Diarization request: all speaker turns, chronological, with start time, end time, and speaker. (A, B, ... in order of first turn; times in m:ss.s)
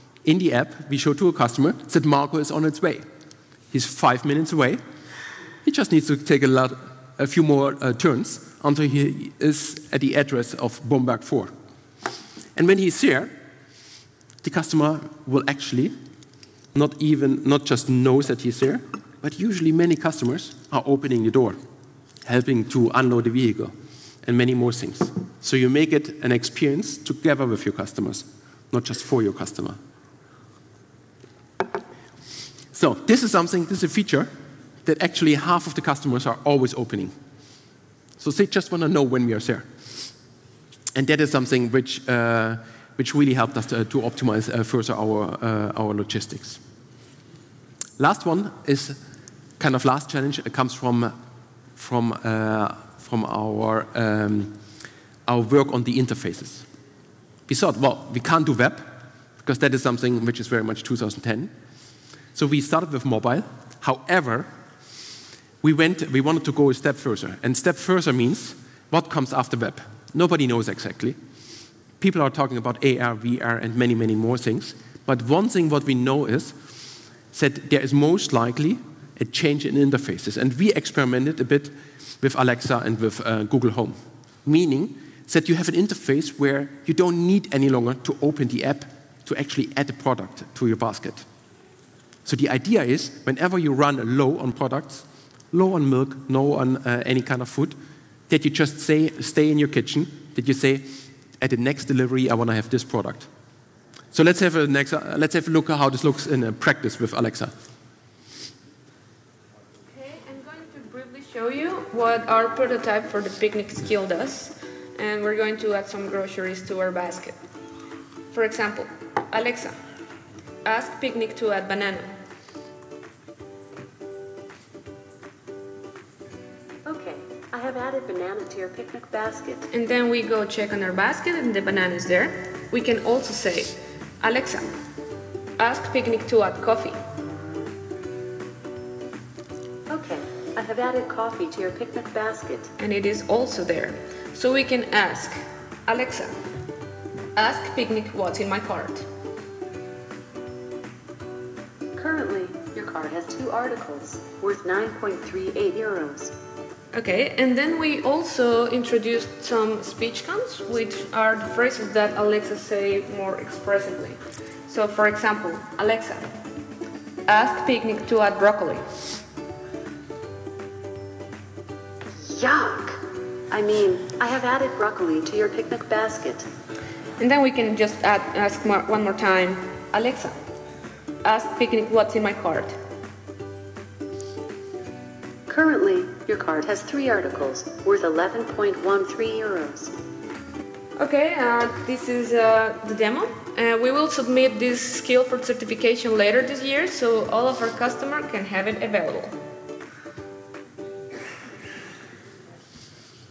0:00.2-0:03.0 A
0:03.7-0:04.8 A
0:05.6-0:11.5 A
0:12.6-0:13.3 A
0:14.4-0:15.9 A
0:16.7-0:21.6 A
0:22.2-0:29.8 A
0:32.7-0:34.3 A
0:34.8-0:37.1 A
0:38.2-0:40.1 A
0:40.9-0:46.6 A
0:48.0-0:49.0 A
0:49.6-0:51.1 A
0:51.8-0:54.5 A
0:55.3-0:56.6 A
0:57.5-1:01.5 A
1:02.3-1:04.5 A
1:05.6-1:11.2 A
1:12.0-1:16.6 A
1:17.3-1:31.2 A
1:32.2-1:37.8 A
1:38.3-1:43.3 A
1:44.1-1:47.5 A
1:49.9-1:57.4 B
1:58.3-1:59.8 B
2:00.6-2:02.1 B
2:06.8-2:09.7 C
2:09.7-2:14.7 B
2:15.6-2:17.0 B
2:19.9-2:22.7 C
2:22.8-2:26.4 B
2:27.3-2:29.0 B
2:31.9-2:36.3 C
2:36.9-2:46.3 B
2:47.3-2:48.9 B
2:52.2-2:56.4 C
2:57.2-3:00.4 B
3:01.2-3:02.8 B
3:05.5-3:09.9 C
3:11.0-3:19.3 B